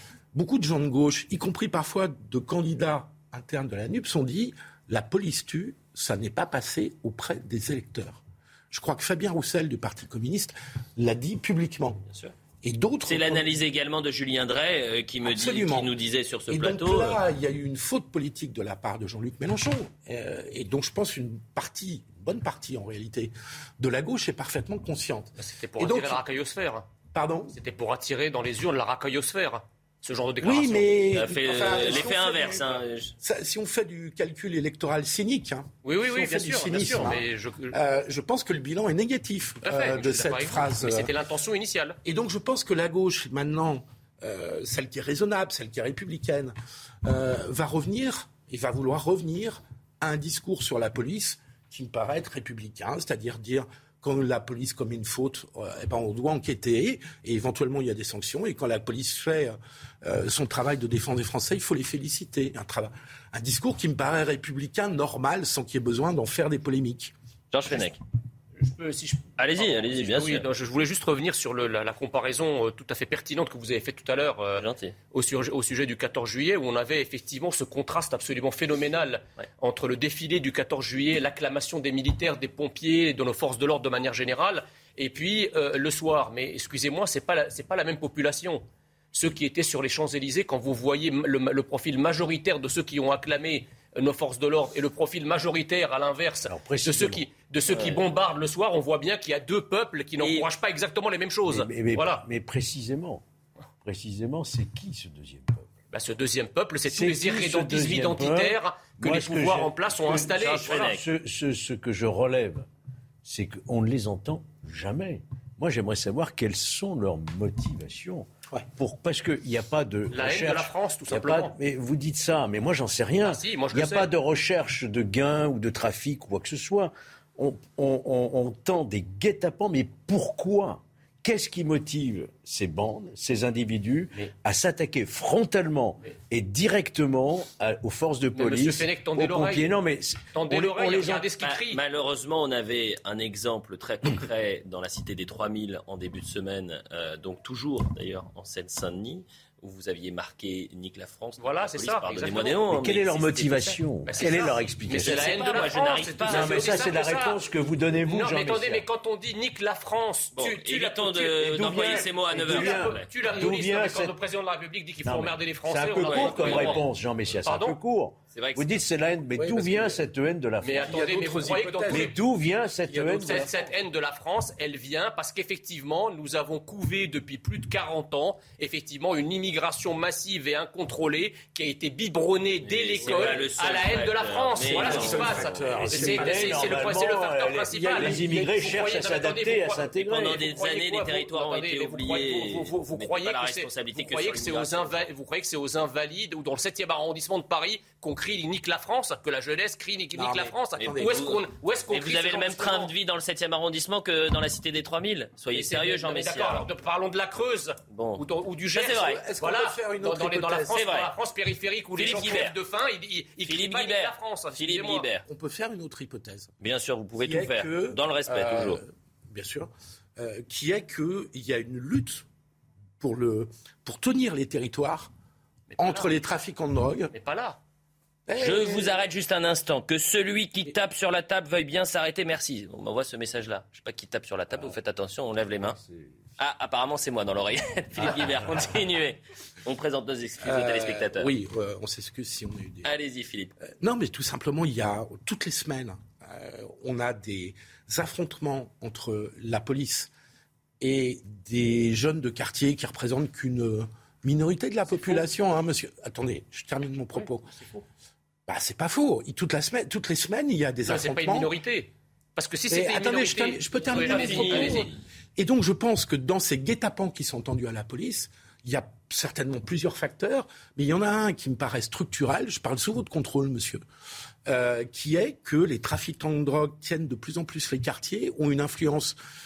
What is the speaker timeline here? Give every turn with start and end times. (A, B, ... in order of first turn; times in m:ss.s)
0:00.3-0:12.0 A
0:12.1-0:12.3 B
0:12.6-0:13.5 A
0:13.0-0:17.2 B
0:15.2-0:15.9 A
0:16.5-0:26.2 A
0:25.4-0:26.8 C
0:27.1-0:27.6 A
0:27.5-0:31.0 C
0:30.4-0:41.1 A
0:31.1-0:33.1 B
0:31.8-0:32.0 C
0:35.8-0:37.8 C
0:39.6-0:42.0 C
0:42.0-1:07.1 A
1:07.5-1:08.0 B
1:08.6-1:42.2 C
1:09.4-1:10.5 B
1:14.6-1:14.9 B
1:36.4-1:37.3 D
1:37.7-1:38.0 B
1:40.2-1:40.5 B
1:41.5-1:43.2 D
1:43.8-1:45.8 D
1:45.9-1:50.9 C
1:46.9-1:52.7 D
1:50.4-1:51.0 B
1:53.2-2:21.2 D
2:00.1-2:01.5 C
2:03.2-2:04.1 C
2:18.4-2:19.7 C
2:20.3-2:21.8 C
2:21.0-2:33.8 B
2:31.4-2:32.6 C
2:32.6-2:35.4 D
2:34.0-2:37.4 C
2:34.9-2:36.7 B
2:36.2-2:38.9 D
2:38.0-2:46.9 C
2:40.4-2:43.1 B
2:41.4-2:44.2 D
2:45.0-2:53.5 D
2:46.0-2:46.8 B
2:47.4-2:47.8 C
2:48.3-2:48.8 B
2:49.4-2:50.0 A
2:50.6-2:52.2 C
2:50.9-2:52.1 A
2:52.9-3:22.9 C
2:53.2-2:53.7 A
3:02.6-3:06.3 B
3:04.7-3:06.7 A
3:04.8-3:10.5 D
3:10.0-3:15.1 B
3:20.1-3:21.2 A
3:21.0-3:26.7 B
3:25.5-3:35.1 C
3:27.9-3:29.2 B
3:29.0-3:30.8 A
3:30.7-3:31.1 B
3:32.0-3:32.6 B
3:33.5-3:35.2 B
3:35.3-3:36.5 A
3:36.6-3:38.8 B
3:37.2-3:42.3 A
3:43.0-3:45.1 A
3:45.7-3:46.2 C
3:45.8-3:47.1 A
3:47.1-3:47.6 C
3:48.3-3:49.0 A
3:48.4-3:55.8 B
3:54.5-3:54.8 D
3:55.6-3:56.2 D
3:56.4-4:01.3 B
4:00.4-4:02.9 A
4:02.8-4:03.5 B
4:03.8-4:10.1 A
4:10.8-4:17.7 A
4:18.5-4:21.5 A
4:20.9-4:24.9 C
4:22.7-4:33.8 A
4:23.9-4:25.0 B
4:34.5-4:39.2 A